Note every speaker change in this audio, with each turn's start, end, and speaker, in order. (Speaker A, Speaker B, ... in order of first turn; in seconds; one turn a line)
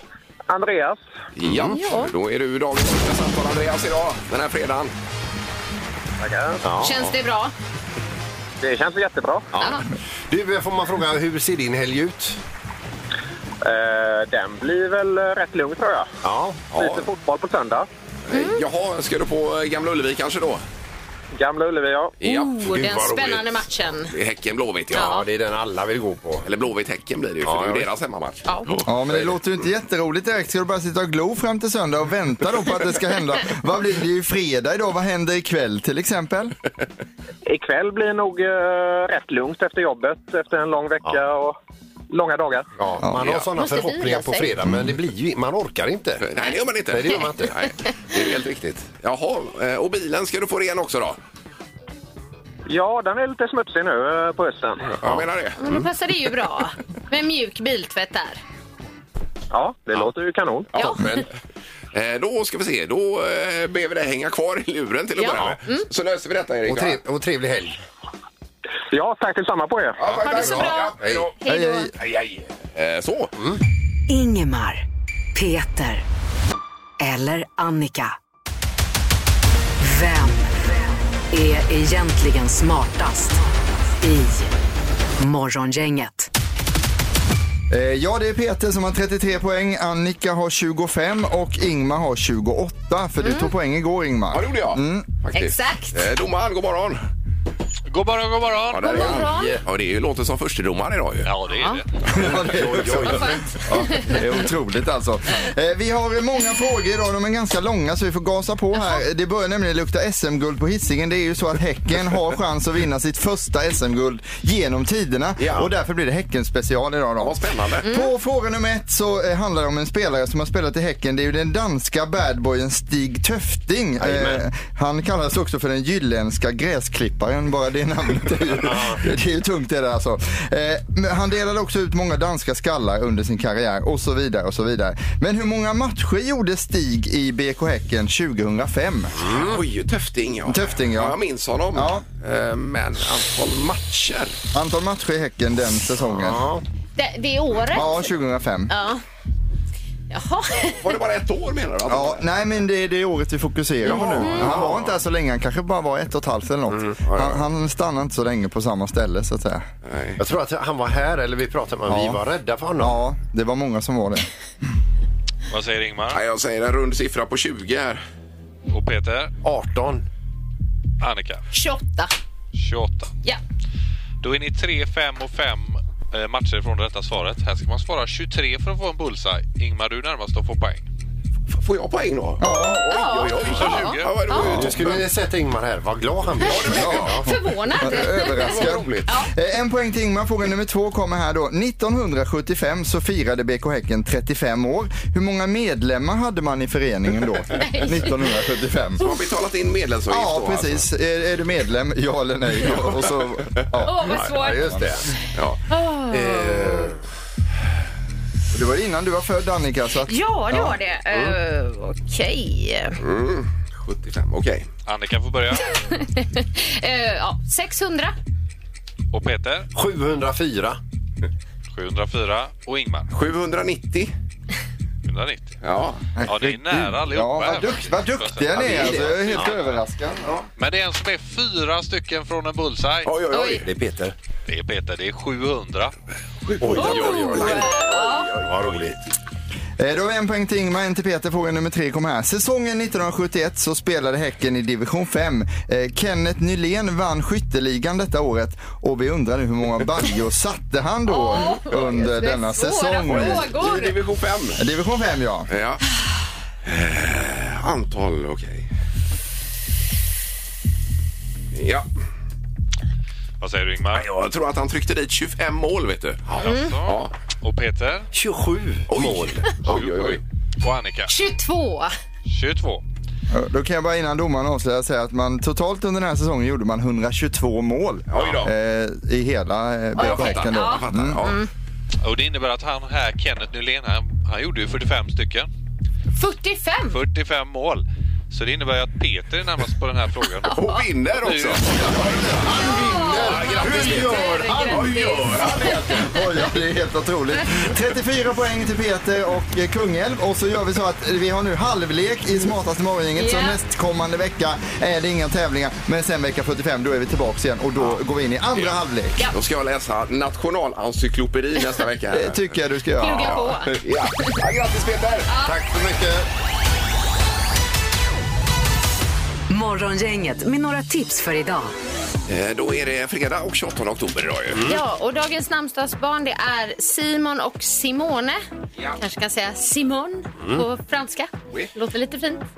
Speaker A: 0.5-1.0
Speaker B: 1.4-4.9
Speaker C: 1.4-1.8
Speaker D: 1.8-2.1
Speaker A: 6.2-6.7
Speaker C: 6.6-7.0
Speaker D: 6.8-7.5
Speaker A: 8.6-9.5
Speaker C: 9.6-12.4
Speaker D: 9.6-9.9
Speaker A: 13.6-16.1
Speaker C: 16.2-16.9
Speaker A: 16.7-17.9
Speaker B: 18.3-20.6
Speaker D: 18.3-18.6
Speaker A: 21.3-22.2
Speaker B: 22.2-22.5
Speaker D: 22.2-24.1
Speaker C: 22.6-23.6
Speaker B: 24.1-25.1
Speaker D: 24.9-25.3
Speaker C: 24.9-26.5
Speaker B: 26.4-28.9
Speaker C: 27.4-27.9
Speaker E: 28.8-36.5
Speaker C: 29.1-29.3
Speaker A: 37.5-41.5
Speaker A: 42.1-42.7
Speaker C: 42.8-47.5
Speaker D: 43.5-44.5
Speaker B: 46.2-51.2
Speaker A: 52.6-54.9
Speaker B: 54.9-55.6
Speaker C: 55.0-55.8
Speaker D: 55.6-58.4
Speaker A: 59.5-60.7
Speaker B: 60.7-61.0
Speaker D: 60.8-61.2
Speaker C: 60.8-61.2
Speaker B: 61.9-67.0
Speaker D: 65.2-65.8
Speaker C: 66.6-67.8
Speaker A: 68.9-70.0
Speaker B: 70.0-71.3
Speaker D: 70.2-71.9
Speaker C: 70.2-71.3
Speaker E: 71.5-71.9
Speaker B: 71.9-73.3
Speaker F: 74.1-74.8
Speaker F: 75.3-76.0
Speaker F: 77.0-78.1
Speaker F: 79.8-80.7
Speaker F: 81.3-84.5
Speaker F: 85.2-86.3
Speaker E: 87.7-95.1
Speaker D: 93.2-93.5
Speaker B: 94.3-97.0
Speaker D: 95.3-96.0
Speaker G: 97.9-99.0
Speaker B: 98.7-101.3
Speaker D: 98.8-99.6
Speaker C: 99.1-99.6
Speaker G: 101.2-101.8
Speaker D: 101.5-101.8
Speaker E: 102.1-139.2
Speaker C: 102.2-103.5
Speaker D: 103.1-104.4
Speaker B: 115.4-115.7
Speaker B: 117.2-117.8
Speaker C: 124.0-124.4
Speaker C: 128.6-129.0
Speaker C: 139.2-139.6
Speaker B: 139.2-144.4
Speaker E: 140.4-141.2
Speaker E: 141.7-142.0
Speaker E: 144.5-146.4
Speaker C: 146.1-146.6
Speaker D: 146.9-148.0
Speaker E: 147.7-148.7
Speaker D: 148.7-149.0
Speaker D: 150.1-150.9
Speaker B: 150.8-152.2
Speaker E: 151.9-159.7
Speaker B: 153.8-155.0
Speaker D: 153.9-154.6
Speaker B: 157.0-157.4
Speaker B: 159.8-160.2
Speaker C: 160.2-163.0
Speaker E: 161.9-162.2
Speaker E: 162.8-164.3
Speaker G: 165.5-166.2
Speaker B: 166.1-168.0
Speaker G: 168.7-169.3
Speaker C: 169.4-170.0
Speaker G: 171.0-171.4
Speaker D: 171.5-172.1
Speaker G: 172.5-173.1
Speaker G: 174.2-180.8
Speaker B: 181.5-185.1
Speaker E: 182.4-182.8
Speaker D: 182.4-184.7
Speaker G: 183.6-184.2
Speaker C: 184.4-187.4
Speaker B: 186.4-187.2
Speaker D: 186.6-189.3
Speaker E: 186.7-187.2
Speaker E: 187.8-199.1
Speaker B: 188.2-188.9
Speaker D: 197.5-198.1
Speaker B: 199.0-200.8
Speaker E: 200.1-204.9
Speaker B: 202.7-203.1
Speaker D: 203.8-204.9
Speaker C: 204.0-205.1
Speaker B: 205.3-205.6
Speaker D: 205.7-206.9
Speaker C: 206.1-207.0
Speaker E: 208.5-210.8
Speaker D: 210.1-213.0
Speaker C: 211.1-211.3
Speaker B: 213.0-214.7
Speaker G: 214.8-215.6
Speaker D: 215.7-218.1
Speaker G: 219.1-219.7
Speaker C: 219.7-220.8
Speaker G: 221.7-223.1
Speaker B: 223.1-224.1
Speaker G: 225.0-225.5
Speaker B: 225.6-226.0
Speaker E: 226.2-230.4
Speaker G: 226.2-229.6
Speaker C: 228.5-229.5
Speaker G: 230.6-233.1
Speaker B: 233.0-233.7
Speaker D: 233.3-233.6
Speaker C: 233.6-234.1
Speaker G: 234.5-235.9
Speaker B: 236.5-238.8
Speaker C: 236.6-237.7
Speaker D: 236.7-238.4
Speaker C: 238.4-239.0
Speaker E: 239.8-253.5
Speaker D: 251.1-253.9
Speaker B: 253.1-254.6
Speaker E: 254.6-255.5
Speaker B: 255.5-255.8
Speaker B: 256.6-258.7
Speaker B: 261.5-261.9
Speaker G: 263.4-264.1
Speaker B: 263.9-266.3
Speaker G: 266.4-268.1
Speaker D: 266.4-266.7
Speaker B: 266.8-267.1
Speaker C: 268.1-269.5
Speaker B: 268.9-270.2
Speaker G: 269.7-271.1
Speaker D: 271.1-271.9
Speaker G: 272.3-272.8
Speaker E: 273.3-281.2
Speaker B: 278.1-278.5
Speaker B: 279.9-281.4
Speaker D: 279.9-281.5
Speaker G: 282.0-285.5
Speaker D: 286.1-287.0
Speaker G: 286.9-290.6
Speaker D: 290.4-290.8
Speaker B: 290.5-292.4
Speaker G: 291.1-292.4
Speaker C: 292.3-294.9
Speaker D: 292.5-296.2
Speaker B: 293.2-296.1
Speaker E: 295.9-309.2
Speaker D: 303.2-303.6
Speaker B: 309.3-312.5
Speaker E: 312.1-313.6
Speaker D: 313.0-314.3
Speaker B: 313.1-315.3
Speaker D: 315.3-315.6
Speaker C: 315.4-316.3
Speaker F: 319.5-321.7
Speaker B: 322.3-324.7
Speaker C: 324.5-324.8
Speaker D: 324.6-328.4
Speaker D: 329.0-332.4
Speaker C: 330.4-330.7